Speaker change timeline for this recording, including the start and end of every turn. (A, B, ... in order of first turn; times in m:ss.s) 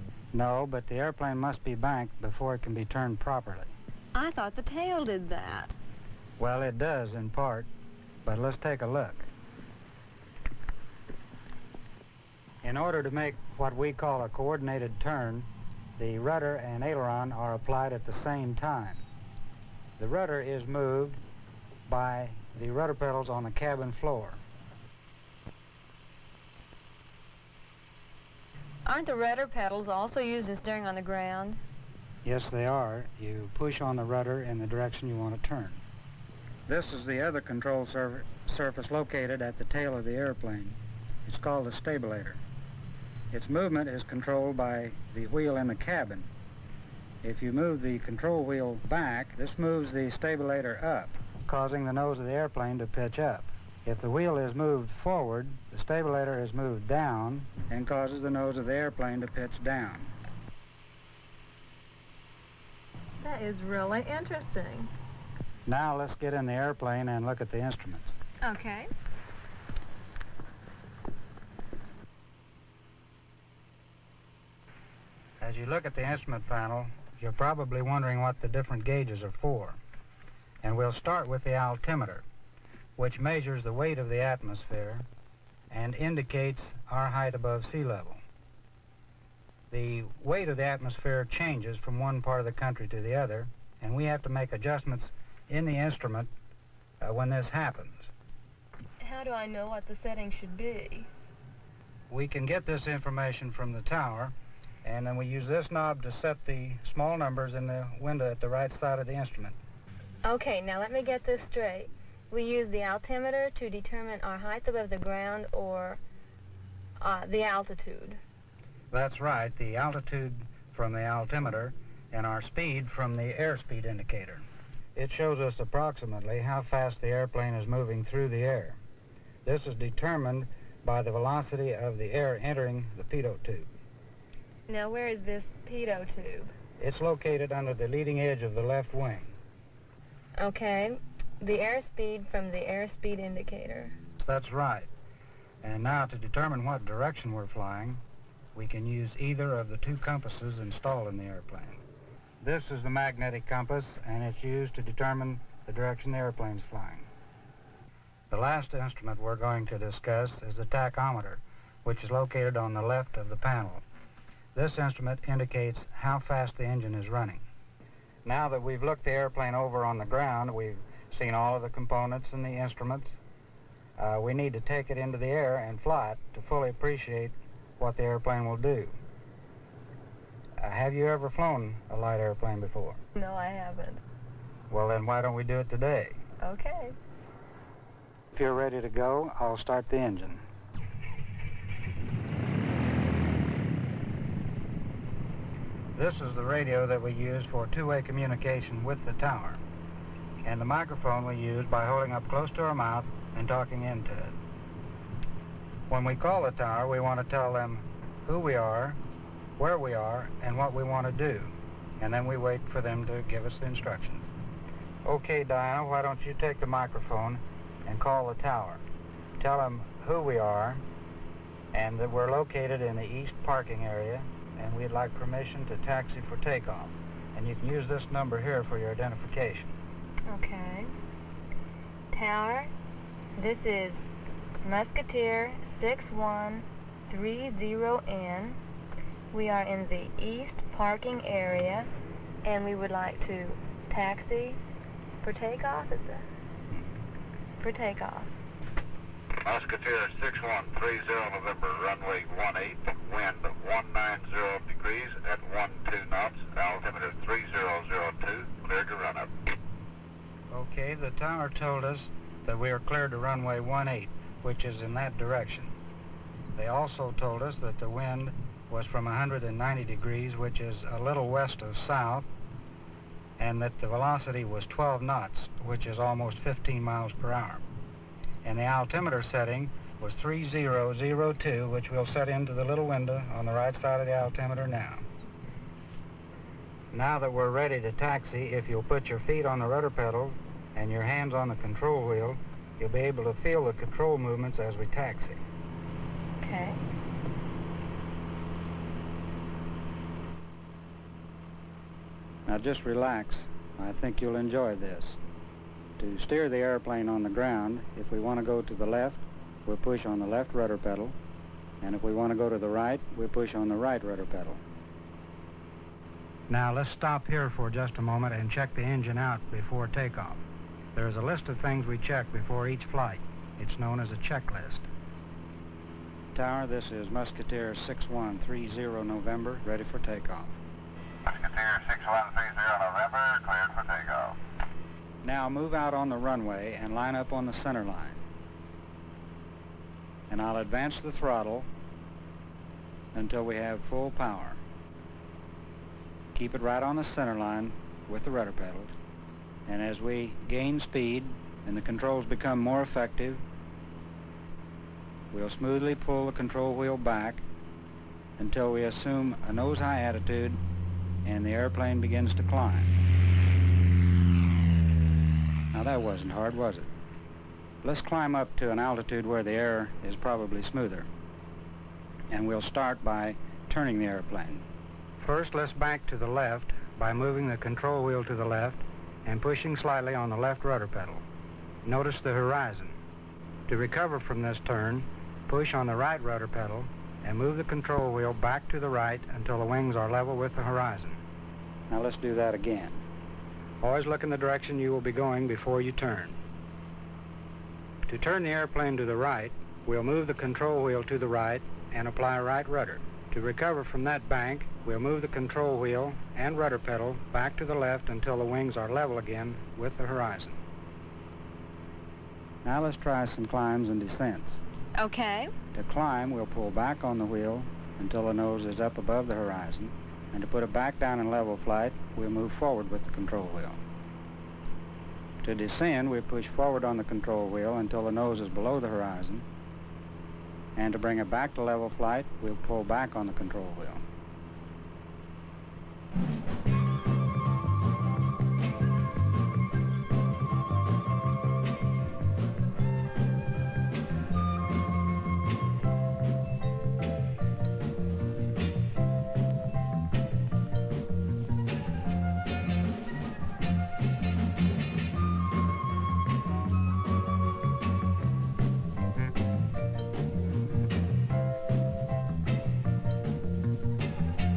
0:00.3-0:03.8 A
0:04.2-0:05.8 B
0:06.4-0:07.7 A
0:08.2-0:09.3 A
0:12.6-0:19.0 A
0:20.0-0:21.2 A
0:21.9-0:24.4 A
0:28.9-0:31.6 B
0:32.2-0:35.8 A
0:36.7-0:42.4 A
0:43.3-0:46.3 A
0:47.2-1:00.1 A
1:03.2-1:04.9 B
1:05.7-1:08.2 A
1:08.4-1:08.9 B
1:15.4-1:19.8 A
1:20.6-1:22.2 A
1:23.0-1:25.0 A
1:25.7-1:28.2 A
1:29.7-1:36.3 A
1:37.0-1:38.1 A
1:39.0-1:41.1 B
1:42.1-1:49.6 A
1:50.2-1:56.0 B
1:57.0-1:58.2 B
1:58.9-2:08.8 A
2:09.4-2:13.7 A
2:14.7-2:16.5 B
2:16.8-2:19.4 A
2:20.4-2:24.0 B
2:24.2-2:24.9 A
2:25.6-2:28.0 A
2:28.6-2:31.8 A
2:32.4-2:37.1 A
2:38.3-2:43.8 A
2:44.6-2:47.4 A
2:48.2-2:53.2 A
2:54.0-2:59.0 A
3:00.6-3:03.0 A
3:03.2-3:04.0 B
3:04.7-3:06.2 A
3:06.4-3:07.0 B
3:08.3-3:10.4 A
3:16.0-3:19.6 A
3:20.4-3:24.4 A
3:25.9-3:29.0 A
3:29.6-3:34.3 A
3:35.0-3:38.8 A
3:39.4-3:40.8 A
3:41.7-3:49.8 A
3:50.3-3:50.9 B
3:52.1-3:52.7 B
3:53.4-3:54.0 B
3:54.6-3:58.6 B
3:59.3-4:01.9 B
4:02.4-4:04.6 B
4:05.2-4:06.3 B
4:07.6-4:08.3 B
4:09.4-4:19.3 C
4:20.5-4:25.8 A
4:26.6-4:32.3 A
4:33.4-4:37.6 A
4:38.4-4:45.0 A
4:46.9-4:55.4 A
4:56.4-4:56.8 B
5:02.5-5:05.2 A
5:06.0-5:11.2 A
5:11.8-5:14.6 A
5:16.5-5:20.4 A
5:20.9-5:24.9 A
5:26.3-5:30.6 A
5:31.3-5:34.4 C
5:35.2-5:38.2 A
5:40.3-5:41.7 A
5:43.1-5:44.6 A
5:46.3-5:48.9 A
5:49.7-5:53.4 A
5:55.3-5:57.4 A
5:58.4-6:00.6 A
6:01.2-6:02.9 A
6:05.7-6:06.9 A
6:07.8-6:11.1 A
6:12.3-6:14.6 A
6:15.2-6:21.2 A
6:21.8-6:23.0 A
6:23.7-6:31.2 A
6:31.9-6:33.0 A
6:33.8-6:36.4 A
6:38.1-6:50.6 A
6:52.6-6:54.6 A
6:55.0-6:55.5 B
6:55.7-7:03.8 A
7:05.4-7:09.4 A
7:10.8-7:14.0 A